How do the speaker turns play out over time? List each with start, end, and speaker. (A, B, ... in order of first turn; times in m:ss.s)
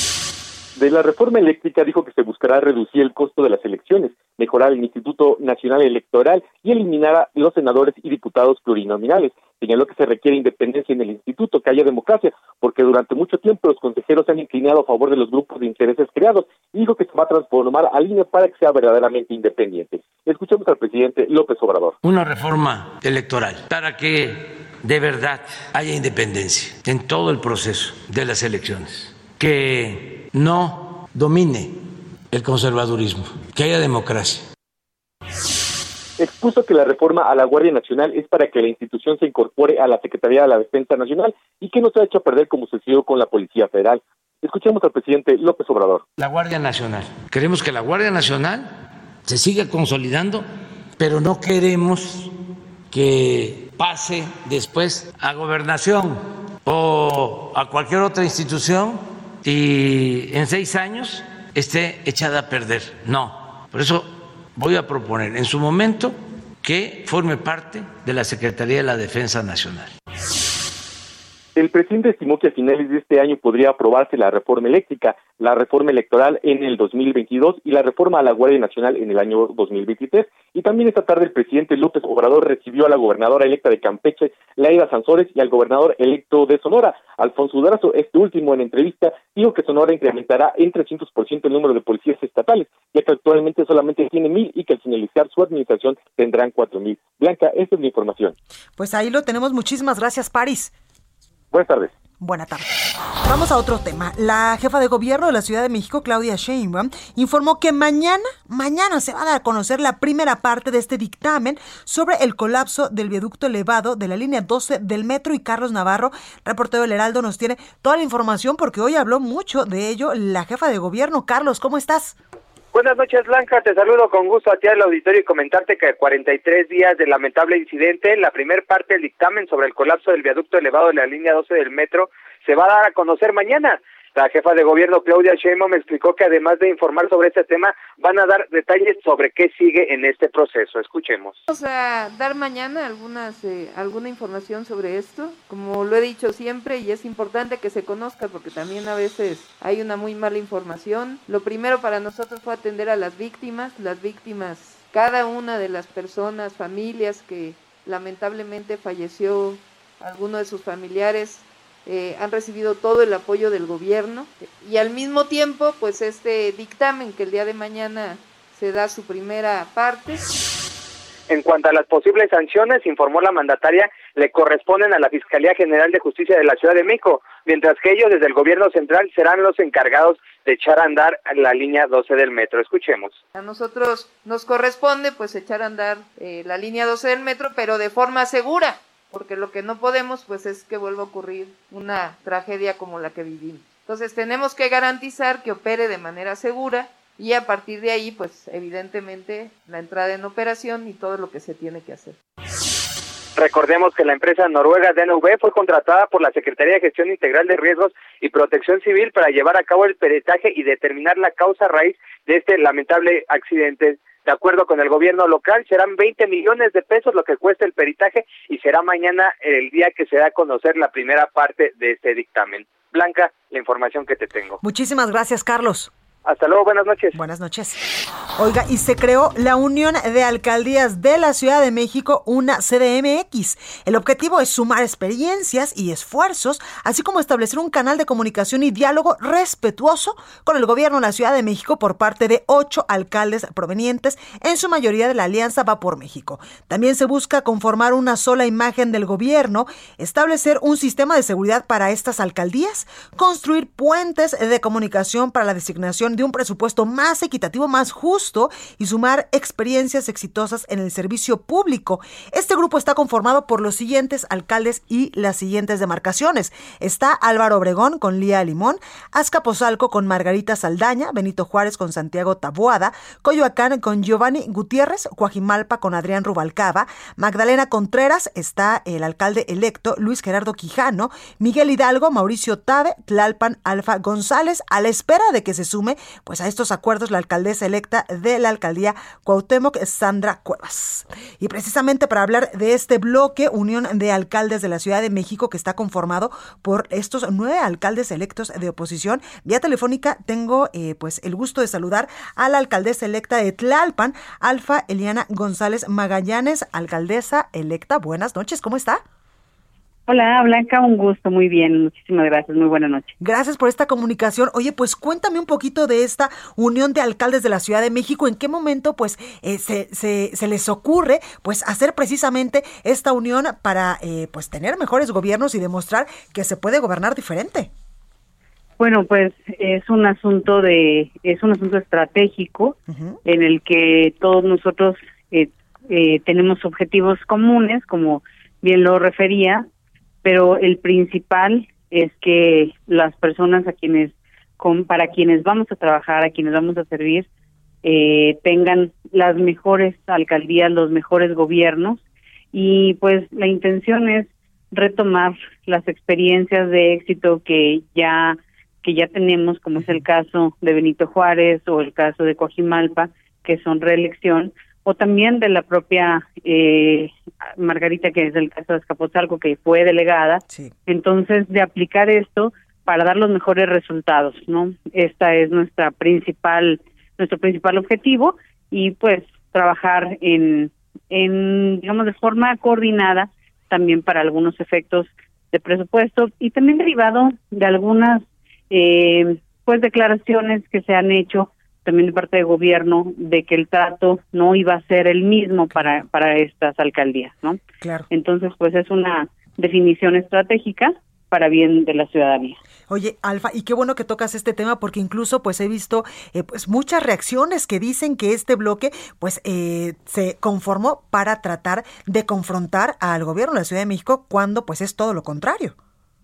0:00.8-0:22.0 A
0:22.0-0:31.8 B
0:32.3-0:34.5 B
0:36.2-0:46.0 A
0:46.2-0:48.7 B
0:49.2-0:50.5 B
0:51.0-0:52.3 B
0:52.9-1:09.9 B
1:11.6-1:38.3 A
1:38.8-1:40.7 C
1:41.5-1:41.9 A
1:42.2-1:42.6 C
1:43.2-2:02.2 C
2:02.7-2:21.4 D
2:21.5-2:50.2 E
2:51.3-3:03.2 D
3:03.3-3:22.2 E
3:23.4-3:44.6 D
3:44.6-3:45.9 C
3:46.2-3:47.1 D
3:47.1-3:47.8 C
3:48.4-5:09.0 C
5:10.1-5:13.1 F
5:13.2-5:27.7 C
5:28.8-5:39.6 F
5:32.9-5:33.2 C
5:40.2-5:47.3 F
5:47.8-5:52.0 F
5:52.5-6:42.6 F
6:37.8-6:38.1 C
6:42.9-6:55.7 C